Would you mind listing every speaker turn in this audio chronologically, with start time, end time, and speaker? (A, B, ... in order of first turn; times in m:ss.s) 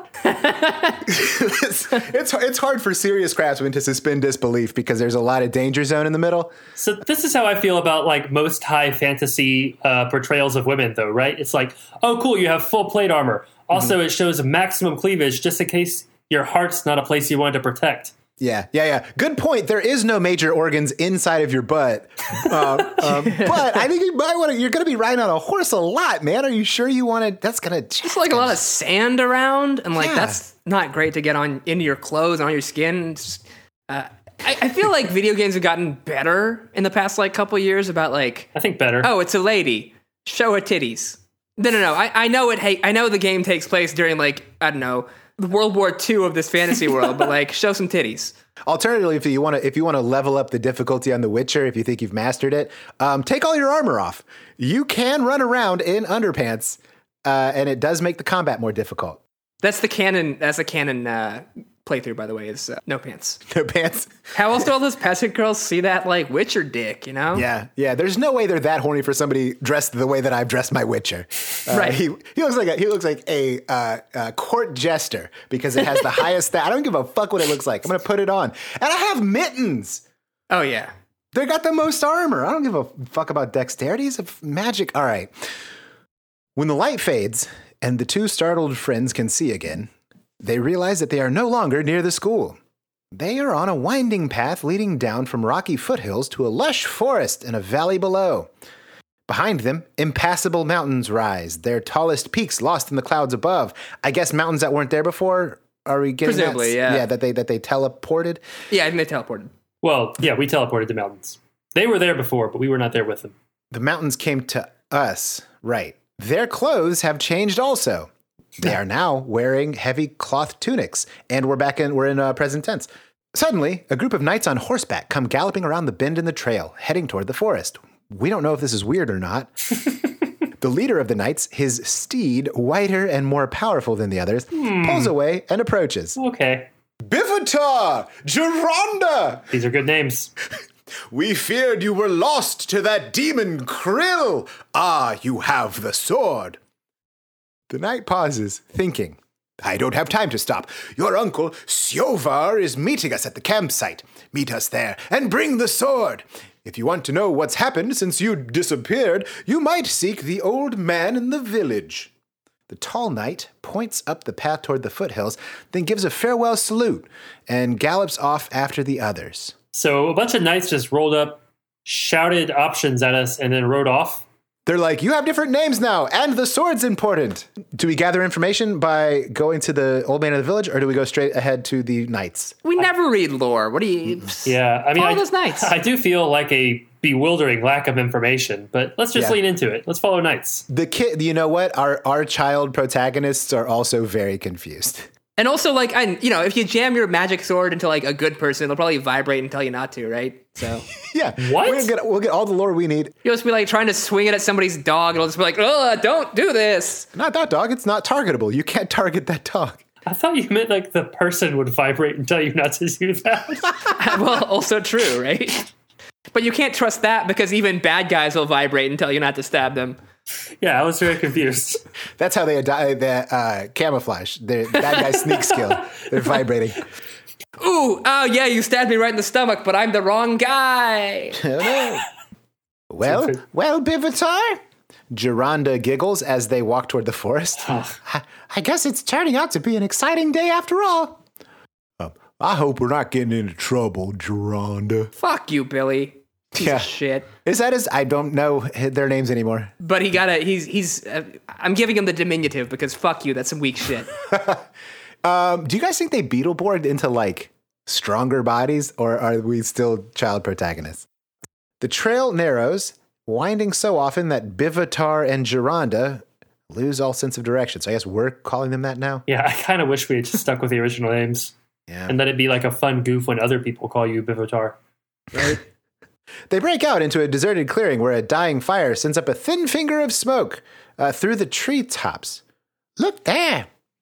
0:00.4-0:00.9 A
0:01.0-0:06.5 B
0:06.8-0:18.1 C
0:18.4-0:28.6 B
0:23.2-0:23.7 A
0:28.0-0:38.5 A
0:30.0-0:30.4 B
0:38.5-0:39.1 C
0:39.0-0:48.3 A
0:48.7-0:59.2 B
0:59.6-1:03.4 A
1:03.5-1:04.3 B
1:04.3-1:07.5 A
1:07.3-1:20.0 B
1:11.7-1:12.0 A
1:20.5-1:20.9 A
1:21.3-1:25.3 B
1:26.6-1:29.9 B
1:30.4-1:32.6 B
1:33.1-1:38.5 B
1:39.3-1:48.4 B
1:46.2-1:47.0 A
1:48.7-1:49.5 A
1:49.8-1:53.3 C
1:53.7-2:09.5 B
2:10.6-2:16.2 B
2:14.5-2:15.1 C
2:16.2-2:16.7 C
2:17.0-2:19.5 B
2:19.5-2:20.3 C
2:21.1-2:26.6 B
2:27.7-2:42.1 B
2:42.7-2:49.5 B
2:49.7-2:54.2 C
2:54.6-3:02.6 B
3:02.6-3:05.7 A
3:04.4-3:10.6 C
3:10.7-3:15.1 B
3:15.4-3:20.9 A
3:21.0-3:23.1 B
3:21.4-3:21.9 C
3:23.2-3:27.1 A
3:27.1-3:29.8 B
3:30.0-3:33.7 C
3:33.9-3:35.7 A
3:36.3-3:40.0 A
3:40.6-3:41.8 C
3:42.2-3:46.8 B
3:47.6-3:51.4 A
3:51.4-3:52.0 B
3:52.9-4:01.2 B
3:53.0-3:53.4 C
3:57.6-3:57.9 C
4:02.0-4:05.1 B
4:05.2-4:07.3 A
4:06.6-4:06.9 B
4:07.4-4:09.7 B
4:09.8-4:14.1 A
4:14.3-4:14.6 B
4:15.2-4:21.0 B
4:21.8-4:29.2 B
4:29.3-4:31.5 C
4:31.9-4:32.1 B
4:32.1-4:34.8 C
4:35.3-4:35.6 B
4:36.5-4:42.4 B
4:43.0-4:43.7 B